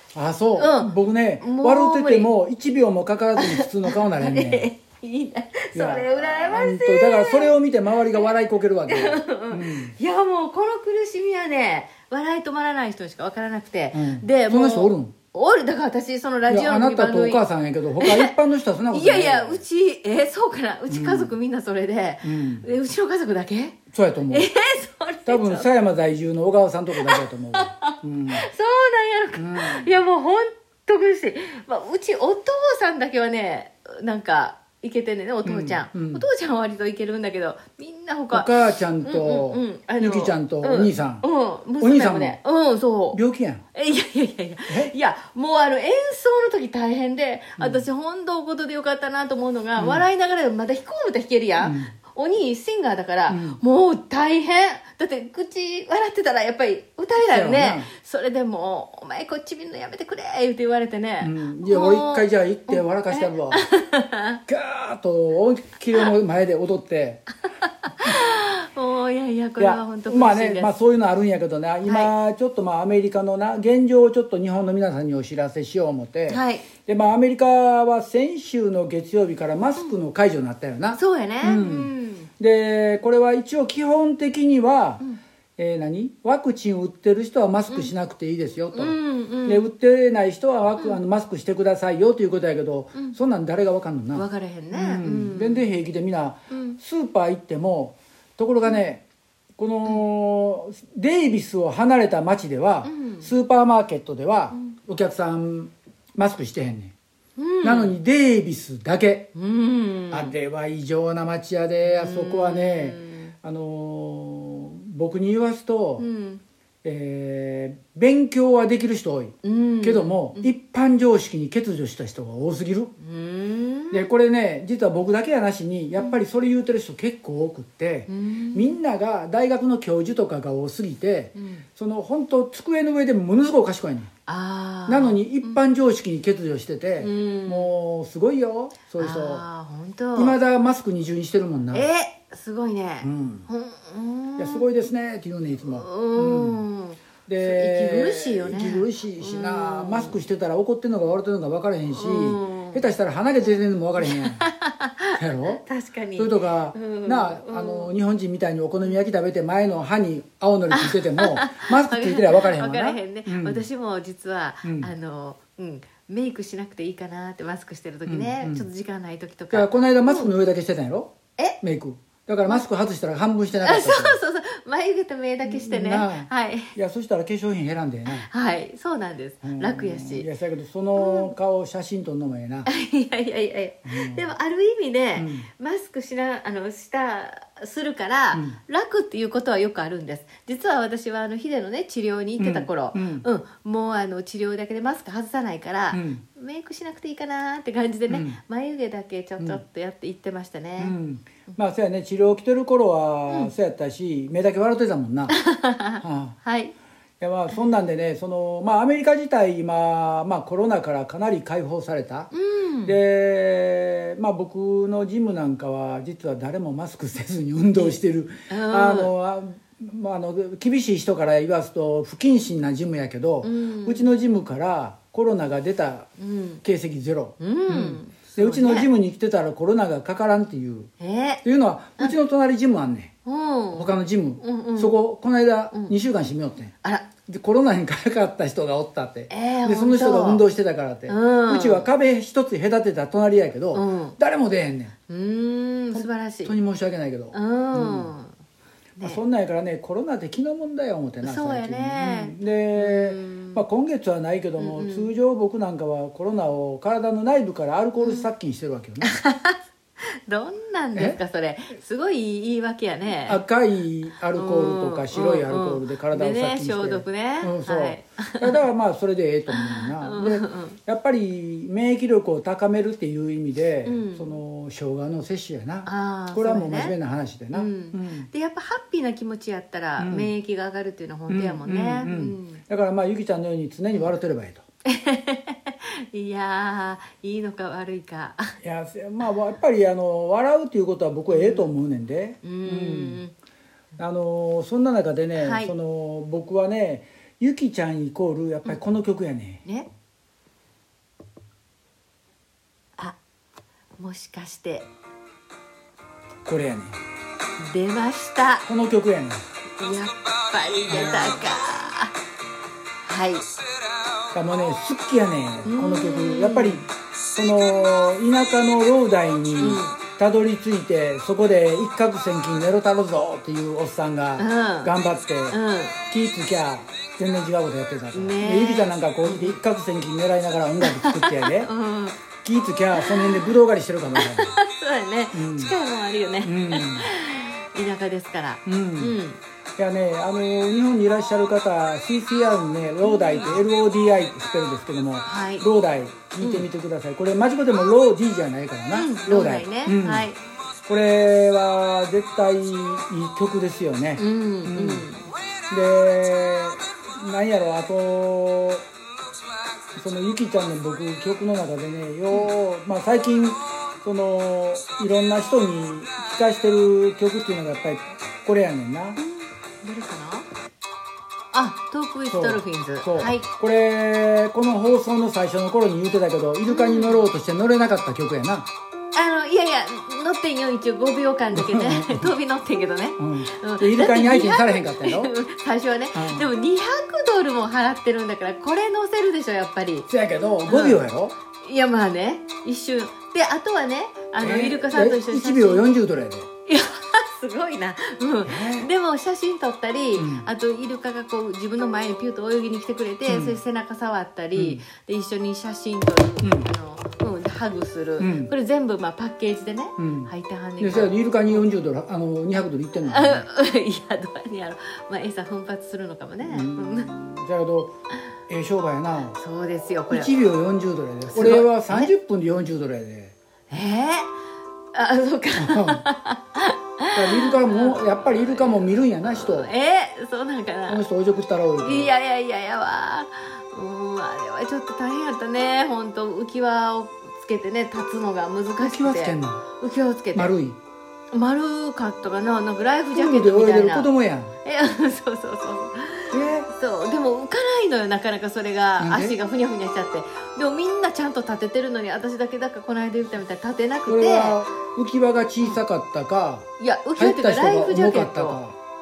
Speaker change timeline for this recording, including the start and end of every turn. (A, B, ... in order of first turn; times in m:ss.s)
0:00.2-0:04.7 A
0:00.6-0:02.3 B
0:03.4-0:07.5 B
0:05.7-0:10.0 A
0:08.9-0:17.4 B
0:13.9-0:15.1 A
0:16.5-0:19.6 A
0:18.0-0:18.4 B
0:18.9-0:23.8 B
0:20.9-0:21.3 A
0:22.2-0:22.6 A
0:23.9-0:24.5 A
0:24.3-0:25.7 B
0:25.3-0:28.4 A
0:27.0-0:38.5 B
0:29.4-0:30.0 A
0:35.4-0:36.3 A
0:38.3-0:41.2 A
0:39.0-0:43.2 B
0:41.8-0:42.4 A
0:43.1-0:43.6 A
0:43.8-1:04.4 B
0:44.7-0:44.9 A
0:47.6-0:47.9 A
0:49.8-0:50.1 A
0:51.6-0:51.9 A
0:53.3-0:53.6 A
0:57.2-0:57.9 A
1:01.2-1:03.7 A
1:04.5-1:07.2 A
1:07.9-1:10.7 B
1:09.6-1:25.0 A
1:11.8-1:12.1 B
1:16.3-1:16.7 B
1:21.0-1:22.3 B
1:25.6-1:39.0 A
1:28.7-1:29.6 B
1:34.1-1:35.7 B
1:36.5-1:36.8 B
1:39.6-1:46.9 A
1:42.8-1:43.3 B
1:47.4-1:48.0 B
1:47.6-1:49.3 A
1:49.4-1:50.4 B
1:50.1-1:56.1 A
1:51.8-1:53.3 B
1:56.0-1:56.4 B
1:56.8-2:02.9 A
1:59.4-2:00.5 B
2:03.0-2:04.1 B
2:03.9-2:14.1 A
2:08.1-2:08.8 B
2:11.4-2:11.6 B
2:14.3-2:15.6 B
2:14.9-2:19.4 A
2:17.0-2:17.7 B
2:19.0-2:20.4 B
2:20.2-2:21.9 A
2:21.7-2:24.7 B
2:23.0-2:23.5 A
2:24.4-2:26.6 A
2:25.6-2:30.2 B
2:27.3-2:34.5 A
2:31.9-2:32.9 B
2:34.1-2:37.9 B
2:35.2-2:35.6 A
2:36.2-2:43.6 A
2:40.7-2:50.3 B
2:44.6-2:44.9 A
2:48.1-2:48.7 A
2:49.5-2:54.2 A
2:53.6-2:56.8 B
2:55.4-2:58.3 A
2:58.1-3:00.3 B
2:59.4-3:02.7 A
3:01.0-3:01.3 B
3:02.7-3:21.0 B
3:03.8-3:04.2 A
3:05.2-3:05.5 A
3:08.3-3:08.6 A
3:12.4-3:13.2 A
3:15.9-3:16.2 A
3:18.1-3:18.4 A
3:19.4-3:19.6 A
3:20.8-3:25.4 A
3:25.3-3:26.7 B
3:26.0-3:26.4 A
3:27.2-3:32.3 A
3:32.3-3:33.0 B
3:32.8-3:46.1 A
3:38.5-3:39.1 B
3:43.4-3:44.1 B
3:46.2-3:46.6 B
3:46.6-3:50.9 A
3:47.4-3:48.9 B
3:51.0-3:51.4 B
3:51.4-3:53.1 A
3:53.2-3:55.0 B
3:53.7-3:56.7 A
3:56.8-3:57.1 B
3:57.2-4:05.0 A
3:59.3-4:00.5 B
4:01.1-4:01.9 B
4:03.7-4:04.2 B
4:05.1-4:06.5 B
4:05.9-4:08.1 A
4:07.3-4:08.4 B
4:09.0-4:19.1 A
4:11.2-4:13.6 B
4:14.6-4:15.1 B
4:18.0-4:18.3 B
4:19.0-4:19.6 B
4:20.3-4:23.4 B
4:23.3-4:38.3 A
4:24.4-4:28.6 B
4:29.5-4:30.8 B
4:33.8-4:34.4 B
4:35.8-4:37.0 B
4:37.5-4:42.6 B
4:40.0-4:40.3 A
4:41.3-4:44.7 A
4:44.9-4:48.5 B
4:48.6-4:53.2 A
4:51.3-4:51.7 B
4:52.4-4:53.4 B
4:54.0-4:59.6 A
4:55.4-4:55.7 B
5:04.0-5:04.9 B
5:06.5-5:07.0 A
5:07.6-5:08.7 B
5:08.6-5:09.5 A
5:09.8-5:12.1 B
5:10.9-5:11.4 A
5:13.0-5:13.5 B
5:14.3-5:25.6 A
5:15.7-5:16.9 B
5:19.6-5:20.0 B
5:24.4-5:24.9 B
5:25.5-5:26.0 B
5:26.1-5:31.7 A
5:28.1-5:29.6 B
5:30.8-5:32.2 B
5:32.4-5:34.6 A
5:33.0-5:33.4 B
5:34.2-5:39.4 B
5:35.3-5:35.8 A
5:36.4-5:37.1 A
5:38.7-5:39.2 A
5:39.8-5:50.3 A
5:43.0-5:43.6 B
5:45.3-5:45.7 B
5:46.4-5:46.7 B
5:48.9-5:50.4 B
5:50.8-5:55.1 A
5:54.2-5:55.3 B
5:55.7-5:58.8 A
6:00.0-6:09.2 A
6:09.2-6:10.5 B
6:11.5-6:13.5 B
6:12.3-6:18.7 A
6:16.7-6:17.2 B
6:19.1-6:30.1 B
6:21.5-6:22.3 A
6:23.2-6:25.3 A
6:26.1-6:26.5 A
6:30.1-6:31.3 A
6:30.7-6:31.0 B
6:31.6-6:36.0 B
6:34.4-6:36.5 A
6:36.7-6:51.7 B
6:38.4-6:38.9 A
6:40.2-6:40.5 A
6:43.3-6:43.6 A
6:44.6-6:44.8 A
6:46.4-6:46.7 A
6:48.2-6:48.5 A
6:50.0-6:53.5 A
6:53.1-6:57.1 B
6:56.4-6:58.0 A
6:58.5-6:59.4 A
6:59.4-7:00.3 B
7:00.1-7:03.3 A
7:01.2-7:02.1 B
7:03.7-7:04.3 B
7:04.9-7:11.0 B
7:05.6-7:06.0 A
7:07.1-7:09.7 A
7:10.9-7:12.1 A
7:11.8-7:20.5 B
7:18.8-7:19.6 A
7:20.3-7:20.8 A
7:21.3-7:24.1 B
7:23.1-7:24.6 A
7:24.6-7:34.6 B
7:26.3-7:26.7 A
7:29.0-7:29.4 A
7:34.1-7:38.8 A
7:36.8-7:38.6 B